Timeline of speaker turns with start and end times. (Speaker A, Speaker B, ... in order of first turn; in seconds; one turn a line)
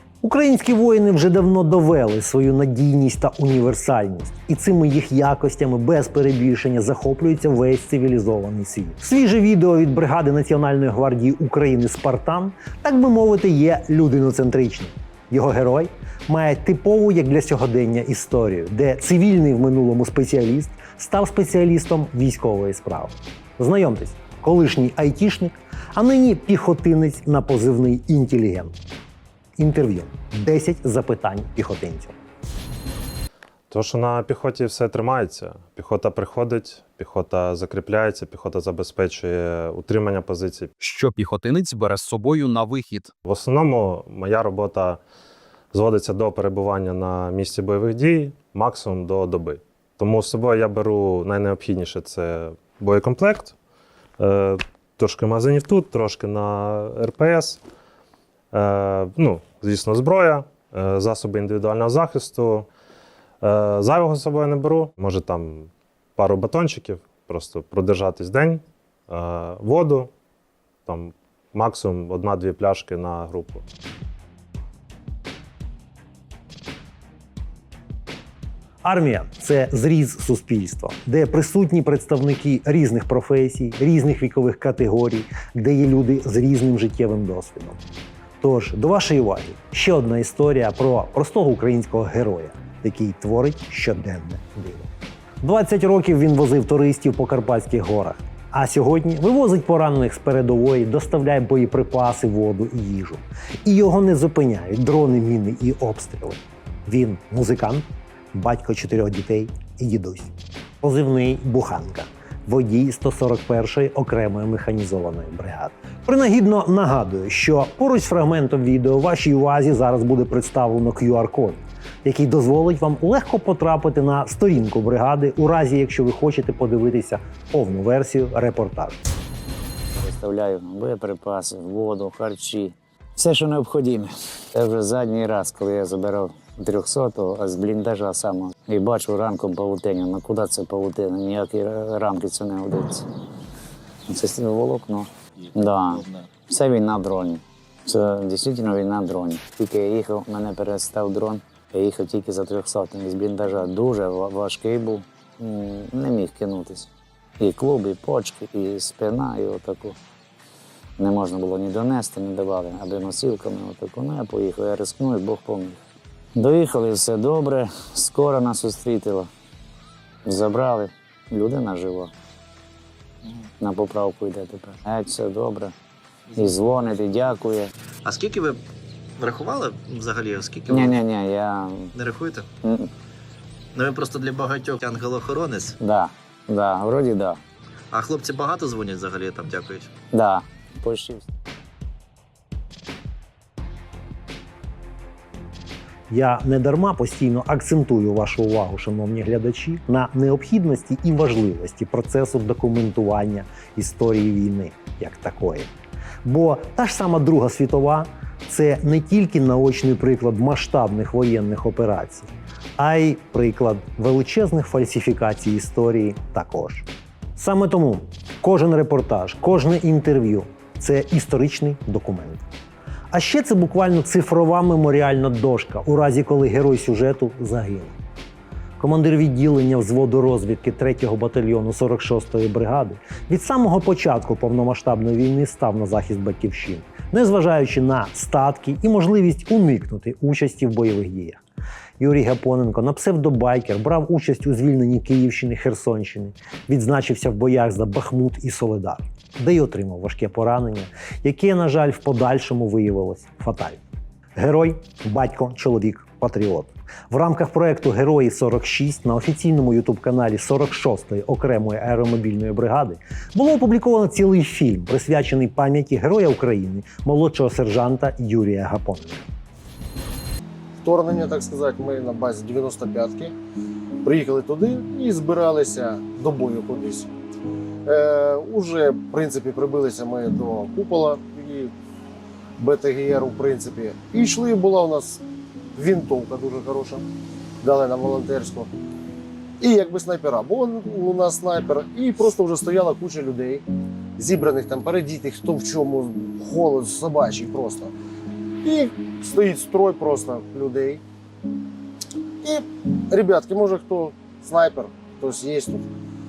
Speaker A: 0.2-28.7
Speaker A: 29.6-32.1
Speaker B: 33.7-40.7
Speaker C: 40.8-43.1
Speaker B: 43.2-45.0
Speaker B: 45.7-53.5
Speaker B: 54.2-57.6
Speaker B: 58.5-62.7
Speaker B: 63.4-70.1
Speaker B: 70.8-73.6
Speaker A: 78.8-87.8
Speaker A: 88.4-94.9
Speaker A: 95.4-129.0
Speaker D: 129.9-143.1
Speaker D: 144.1-156.9
Speaker D: 157.4-160.0
Speaker D: 161.0-165.8
Speaker D: 166.3-169.3
Speaker D: 170.2-172.1
Speaker D: 173.6-175.7
Speaker D: 176.3-177.7
Speaker E: 178.0-178.6
Speaker E: 179.2-180.8
Speaker D: 180.7-181.9
Speaker E: 181.9-182.4
Speaker E: 183.7-185.7
Speaker D: 185.8-187.4
Speaker E: 187.9-189.9
Speaker D: 190.1-191.3
Speaker A: 196.1-205.7
Speaker A: 206.2-222.4
Speaker A: 223.1-227.9
Speaker A: 228.8-241.4
Speaker A: 242.0-253.8
Speaker A: 254.4-269.3
Speaker F: 270.8-273.3
Speaker F: 274.0-277.1
Speaker F: 277.8-281.7
Speaker F: 282.6-285.2
Speaker F: 285.8-287.1
Speaker F: 287.6-288.7
Speaker F: 289.6-297.9
Speaker F: 298.6-301.0
Speaker F: 302.4-305.9